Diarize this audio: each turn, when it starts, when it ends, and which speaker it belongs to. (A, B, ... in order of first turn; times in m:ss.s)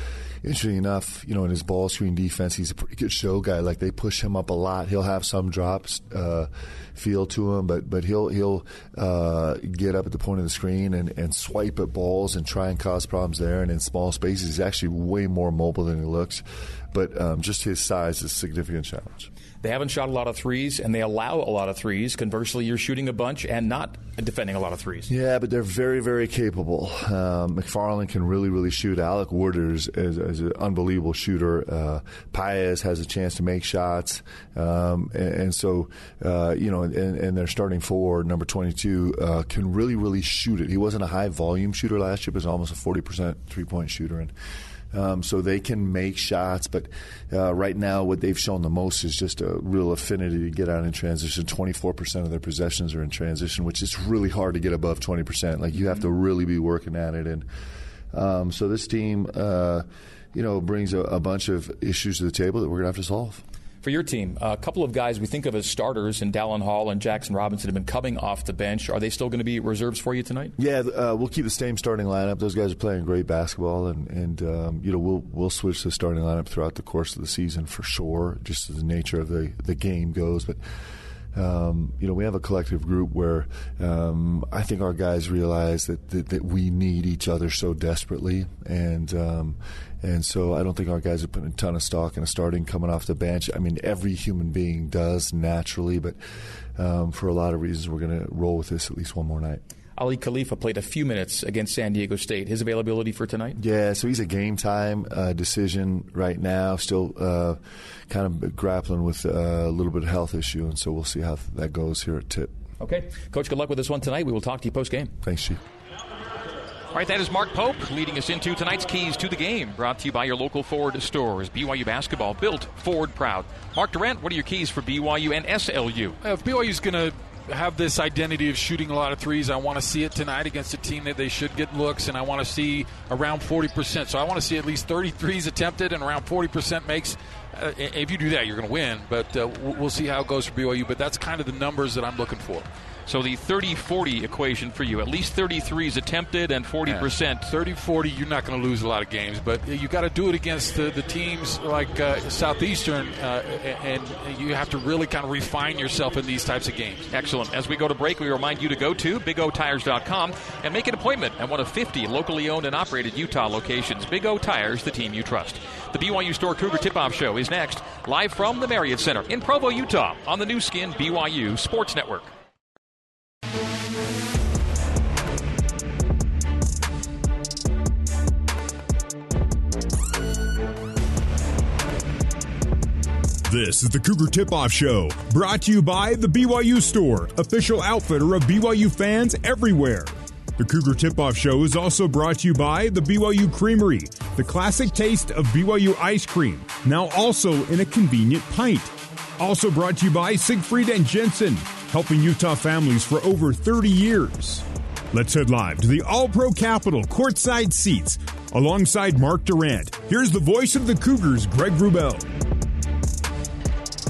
0:00.4-0:19.3 A
0:19.6-0:25.1 B
0:25.1-0:44.3 A
0:44.9-0:57.5 A
0:58.1-1:03.4 A
1:03.8-1:10.5 B
1:10.6-1:20.6 A
1:21.3-1:36.2 A
1:36.8-1:39.6 A
1:40.0-1:43.6 B
1:43.6-1:52.6 A
1:52.8-1:55.2 B
1:55.2-1:55.6 A
1:56.9-2:06.2 C
2:06.2-2:22.7 D
2:23.1-2:27.4 C
2:26.9-2:37.1 D
2:37.1-2:52.3 C
3:03.5-3:32.3 E